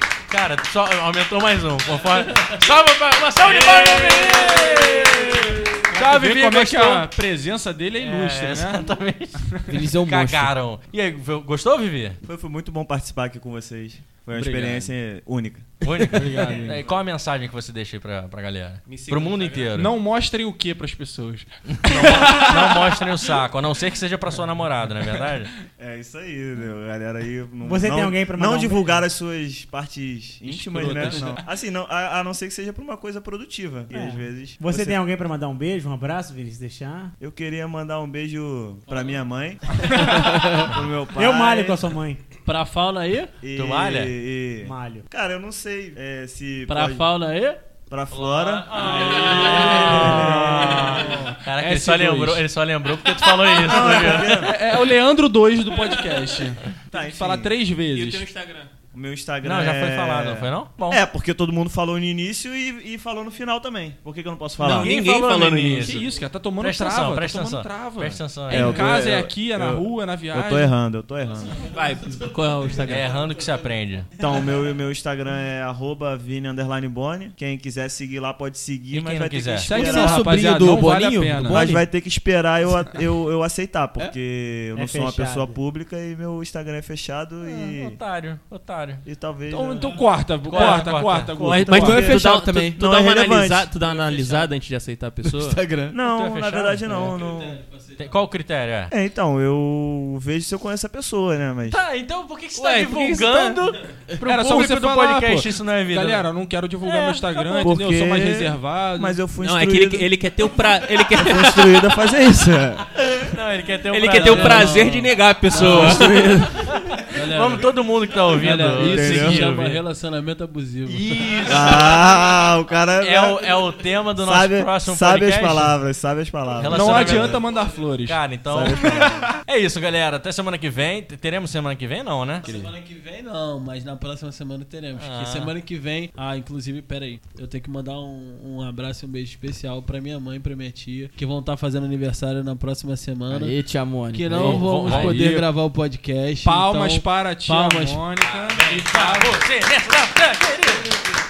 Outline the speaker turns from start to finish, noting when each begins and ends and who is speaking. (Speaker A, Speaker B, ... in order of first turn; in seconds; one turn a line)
Speaker A: 0.3-7.1
Speaker B: 3.5-8.9
Speaker A: 8.0-12.2
Speaker C: 9.7-10.5
Speaker D: 12.2-16.1
Speaker B: 14.3-14.9
Speaker A: 15.8-19.9
Speaker B: 16.2-16.8
Speaker E: 18.9-19.7
Speaker B: 19.8-22.8
Speaker A: 21.7-25.5
Speaker D: 25.8-35.0
Speaker F: 27.6-29.0
Speaker B: 30.4-31.4
Speaker F: 33.9-37.1
Speaker D: 37.2-41.9
Speaker F: 41.2-42.2
Speaker G: 42.5-43.3
Speaker D: 43.4-47.1
Speaker A: 43.5-44.1
Speaker F: 44.6-45.0
Speaker G: 46.7-47.6
Speaker D: 47.9-50.7
Speaker A: 48.1-54.5
Speaker B: 49.1-52.4
Speaker F: 49.8-50.6
Speaker D: 53.6-54.5
Speaker B: 53.9-58.3
Speaker D: 56.9-57.5
Speaker E: 57.9-58.7
Speaker D: 58.9-64.9
Speaker A: 59.4-61.0
Speaker E: 64.6-66.1
Speaker A: 64.6-68.9
Speaker B: 65.8-70.7
Speaker D: 68.5-71.6
Speaker E: 71.6-73.1
Speaker A: 72.8-74.1
Speaker D: 74.2-80.2
Speaker A: 78.9-79.7
Speaker B: 79.6-81.7
Speaker C: 79.7-81.8
Speaker D: 81.5-88.0
Speaker F: 84.8-85.6
Speaker A: 87.4-89.0
Speaker D: 89.0-90.0
Speaker B: 89.5-92.1
Speaker G: 89.8-90.2
Speaker A: 90.4-91.3
Speaker D: 91.3-93.7
Speaker E: 91.5-95.6
Speaker C: 91.7-92.8
Speaker G: 93.8-94.5
Speaker C: 95.2-95.9
Speaker D: 95.9-97.6
Speaker A: 96.1-97.1
Speaker G: 96.8-98.2
Speaker A: 98.0-98.9
Speaker D: 98.9-101.8
Speaker A: 101.7-106.3
Speaker E: 102.5-103.6
Speaker B: 104.2-109.2
Speaker A: 106.8-107.7
Speaker D: 107.6-110.1
Speaker E: 109.3-111.9
Speaker D: 111.1-113.0
Speaker A: 113.2-119.8
Speaker E: 113.9-116.6
Speaker G: 114.1-116.3
Speaker G: 117.1-117.8
Speaker G: 118.3-121.7
Speaker D: 118.8-119.5
Speaker B: 119.1-119.4
Speaker A: 120.8-122.2
Speaker D: 121.5-123.6
Speaker A: 123.0-125.8
Speaker D: 124.2-127.4
Speaker A: 126.6-127.5
Speaker B: 126.7-129.1
Speaker A: 128.0-132.4
Speaker D: 128.5-129.3
Speaker G: 132.4-143.6
Speaker B: 132.4-132.7
Speaker A: 135.0-135.5
Speaker C: 143.3-146.0
Speaker G: 144.1-146.6
Speaker A: 144.3-145.2
Speaker B: 144.4-145.5
Speaker B: 146.4-149.3
Speaker C: 146.6-147.0
Speaker G: 147.4-148.1
Speaker A: 148.2-151.2